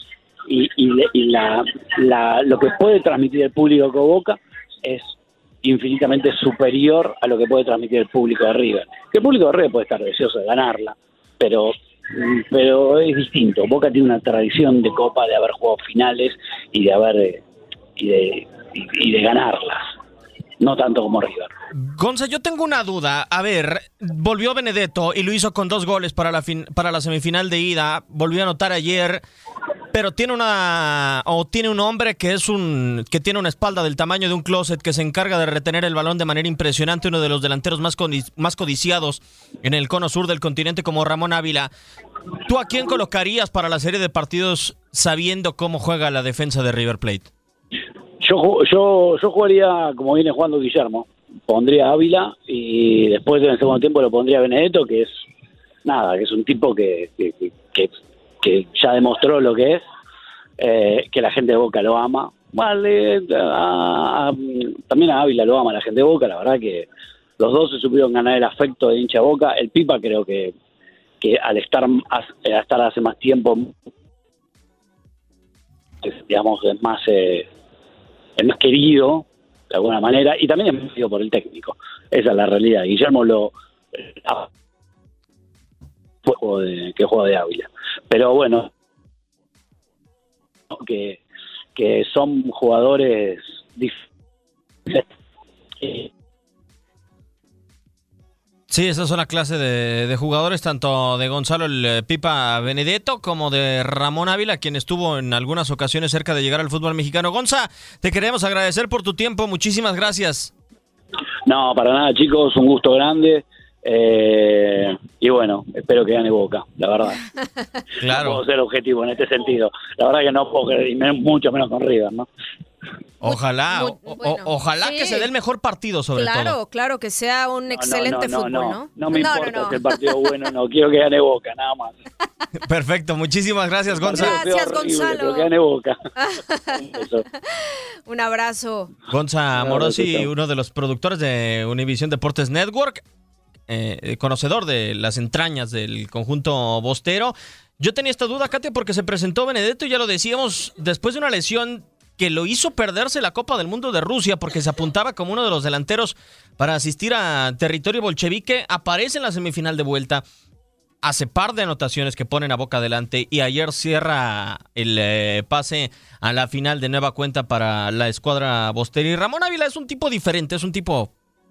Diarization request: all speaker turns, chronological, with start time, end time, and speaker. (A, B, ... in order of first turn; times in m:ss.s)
0:00.5-0:17.4 A
0:18.0-0:19.9 A
0:20.6-0:21.5 A
0:21.8-0:29.2 B
0:29.9-0:41.7 B
0:42.4-0:47.3 B
0:48.2-0:55.2 A
0:55.8-0:59.8 A
1:00.6-1:06.9 A
1:07.4-1:10.6 A
1:11.2-1:13.8 A
1:16.0-1:17.5 A
1:18.4-1:23.5 A
1:26.2-1:28.7 A
1:30.7-1:31.2 A
1:31.8-1:34.0 A
1:35.8-1:36.1 A
1:38.7-1:50.5 B
1:51.5-1:57.2 A
1:58.0-1:58.4 B
1:58.1-2:02.3 A
2:03.2-2:06.6 B
2:03.2-2:05.3 C
2:06.2-2:10.1 C
2:07.7-2:12.0 A
2:12.6-2:14.4 B
2:14.0-2:16.0 A
2:14.1-2:15.5 C
2:16.2-2:16.8 C
2:16.8-2:17.2 A
2:17.6-2:18.9 C
2:19.1-2:23.0 B
2:19.6-2:20.3 A
2:23.7-2:40.2 B
2:41.0-2:51.1 B